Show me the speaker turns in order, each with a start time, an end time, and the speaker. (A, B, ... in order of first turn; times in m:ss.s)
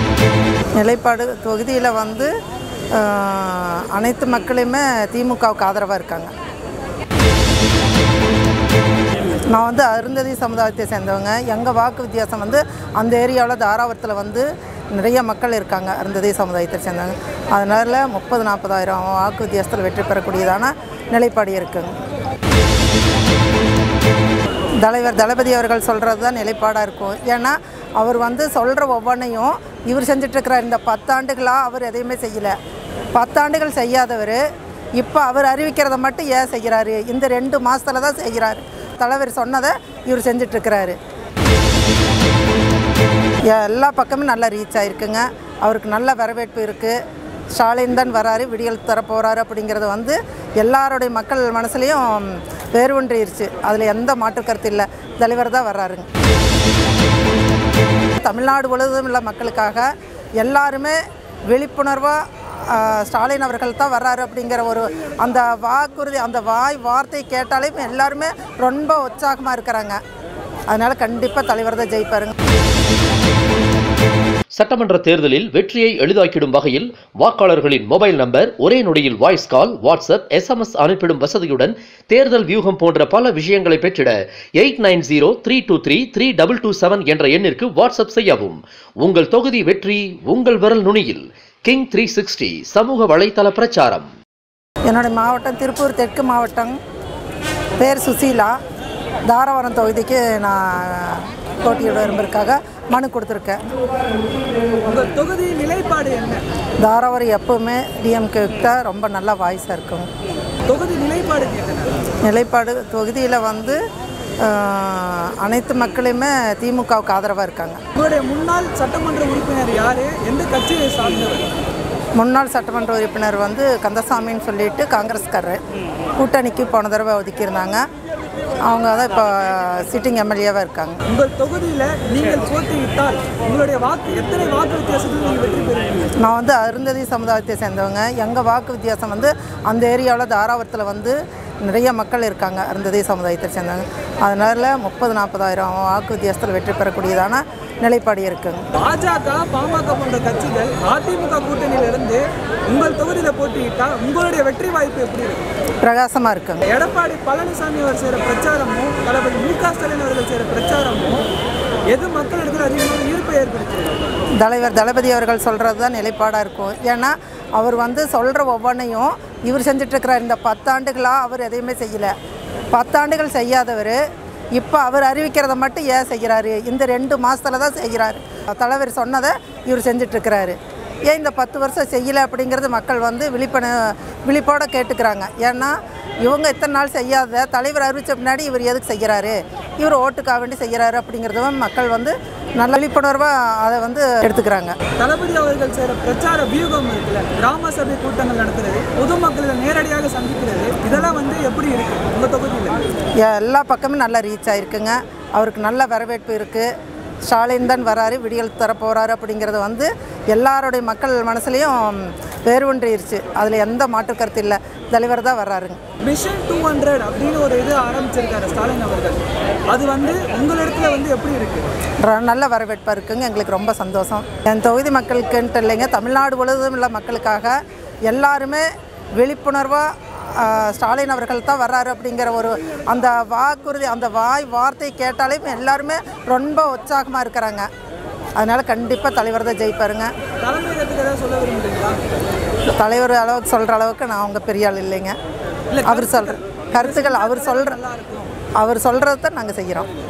0:00.8-0:02.3 A
0:02.9-0:06.3 A
0:09.5-0:22.0 A
0:24.8-0:32.6 A
0:33.2-0:34.4 A
0:35.0-0:41.0 A
0:43.5-0:47.0 A
0:47.6-0:56.1 A
0:58.2-1:01.0 A
1:01.5-1:10.0 A
1:10.7-1:12.3 A
1:14.5-1:34.1 B
1:34.9-1:36.8 A
1:37.8-1:38.5 A
1:39.3-1:43.6 A
1:44.8-1:46.4 C
1:46.8-1:50.1 A
1:50.7-1:51.9 C
1:52.2-1:53.8 A
1:54.4-1:57.8 A
1:58.0-2:01.5 C
2:02.2-2:05.6 A
2:06.2-2:07.8 A
2:08.7-2:11.0 A
2:11.1-2:16.2 C
2:16.2-2:28.7 A
2:28.8-2:35.5 C
2:35.8-2:36.7 A
2:36.7-2:41.2 C
2:41.9-2:44.1 C
2:44.4-2:52.1 A
2:52.7-2:54.0 A
2:54.6-3:00.6 A
3:01.1-3:14.8 A
3:15.0-3:22.8 C
3:23.2-3:26.7 A
3:27.3-3:35.8 A
3:36.0-3:41.7 C
3:42.0-3:47.6 A
3:48.1-3:48.6 A
3:49.2-3:57.7 A
3:58.4-4:00.1 A
4:00.4-4:02.0 C
4:02.8-4:05.2 A
4:05.7-4:08.3 C
4:05.9-4:07.8 A
4:08.6-4:09.9 A